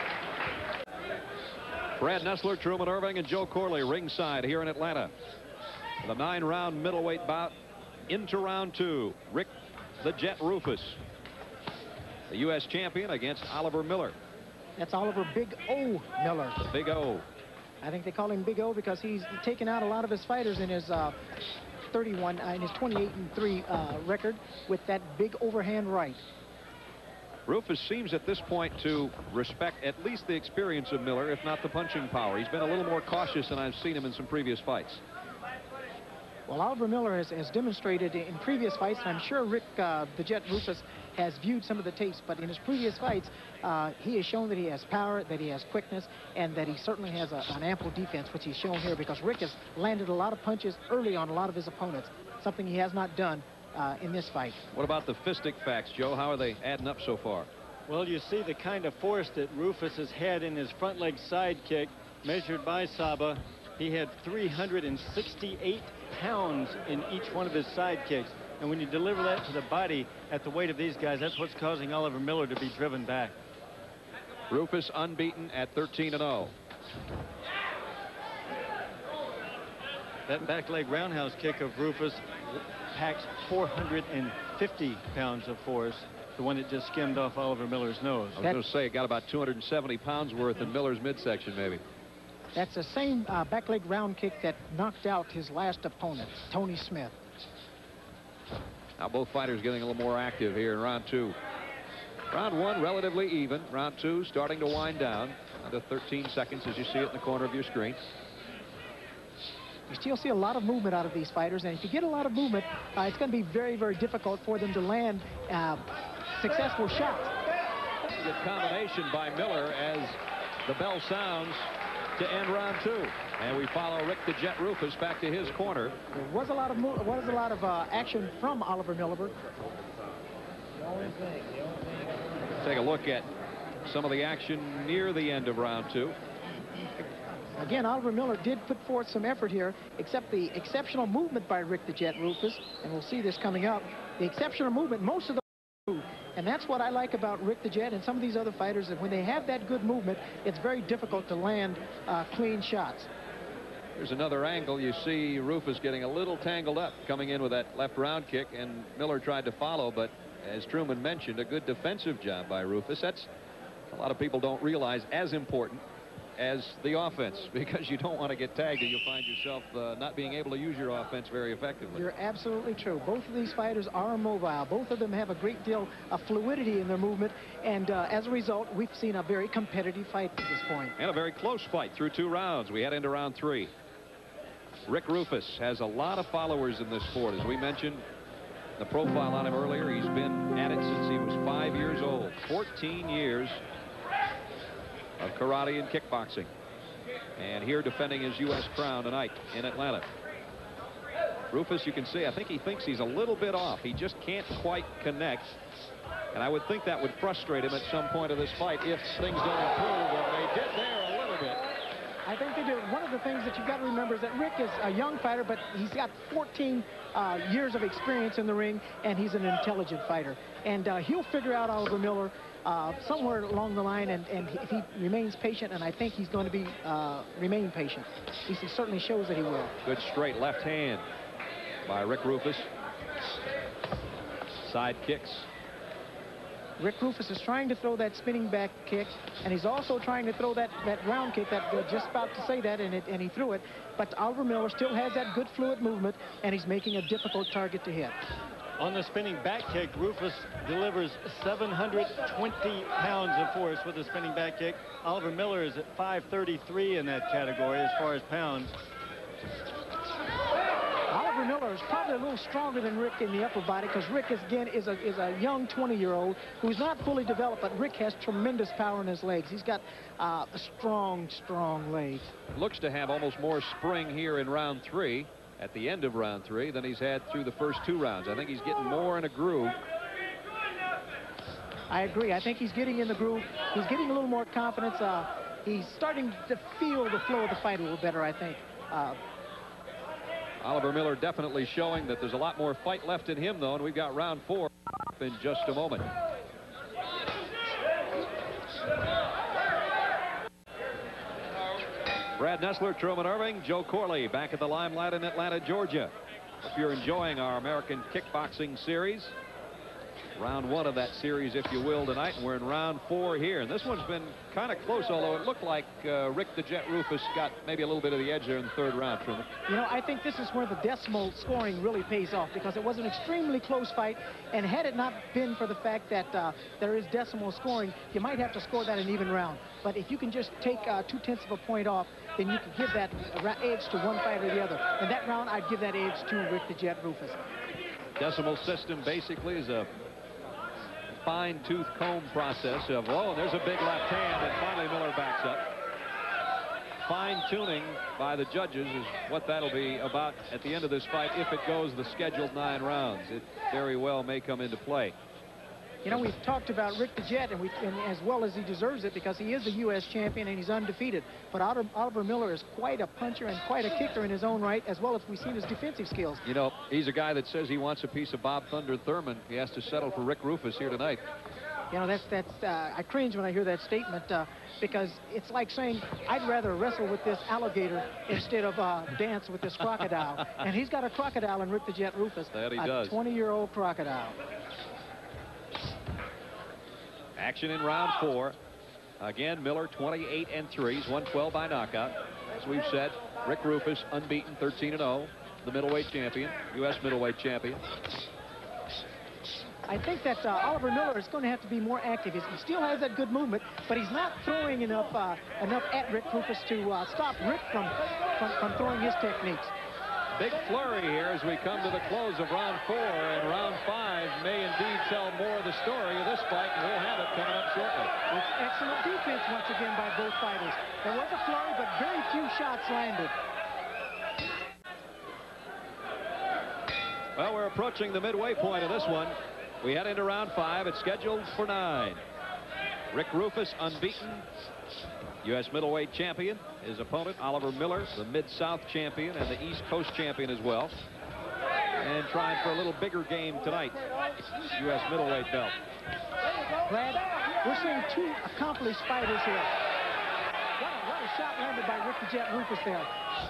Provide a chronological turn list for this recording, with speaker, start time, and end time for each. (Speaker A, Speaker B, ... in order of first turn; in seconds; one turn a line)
Speaker A: 2.0-5.1
Speaker A: 6.0-7.5
Speaker A: 8.1-9.5
Speaker A: 10.0-11.0
Speaker A: 12.3-14.2
Speaker B: 14.8-16.7
Speaker A: 16.7-17.3
Speaker B: 17.8-21.1
Speaker B: 21.9-26.2
Speaker A: 27.5-35.0
Speaker B: 36.5-54.6
Speaker A: 54.7-57.5
Speaker C: 57.9-73.3
Speaker A: 74.5-76.5
Speaker C: 80.3-88.4
Speaker A: 88.4-91.8
Speaker B: 92.5-97.2
Speaker A: 99.0-101.4
Speaker A: 102.3-108.0
Speaker B: 109.9-117.3
Speaker A: 118.1-126.0
Speaker B: 126.1-129.3
Speaker A: 132.6-133.3
Speaker A: 133.8-136.2
Speaker B: 137.6-153.1
Speaker A: 154.0-163.3
Speaker A: 163.9-165.8
Speaker A: 166.4-172.1
Speaker B: 171.9-180.9
Speaker A: 181.0-183.7
Speaker A: 184.9-188.1
Speaker A: 188.8-193.6
Speaker A: 195.2-196.5
Speaker A: 197.4-200.1
Speaker A: 201.5-205.6
Speaker A: 206.3-211.6
Speaker B: 212.2-229.7
Speaker A: 229.8-231.0
Speaker A: 231.8-232.7
Speaker A: 234.6-235.5
Speaker B: 236.8-248.2
Speaker C: 248.8-258.7
Speaker B: 261.1-272.3
Speaker A: 272.5-279.8
Speaker B: 281.9-289.2
Speaker A: 290.6-296.1
Speaker A: 302.4-306.1
Speaker A: 306.6-309.4
Speaker A: 310.4-319.5
Speaker B: 319.7-337.4
Speaker A: 338.2-339.9
Speaker A: 341.1-345.6
Speaker A: 347.0-355.2
Speaker B: 356.0-366.4
Speaker A: 366.4-371.2
Speaker B: 371.9-384.4
Speaker A: 382.5-383.2
Speaker A: 387.4-388.6
Speaker A: 389.2-397.8
Speaker B: 399.9-409.7
Speaker A: 410.4-418.1
Speaker B: 418.3-423.3
Speaker A: 427.4-432.2
Speaker A: 433.1-434.4
Speaker A: 435.4-440.9
Speaker A: 442.0-444.0
Speaker A: 444.7-445.8
Speaker B: 446.9-449.7
Speaker B: 450.8-453.1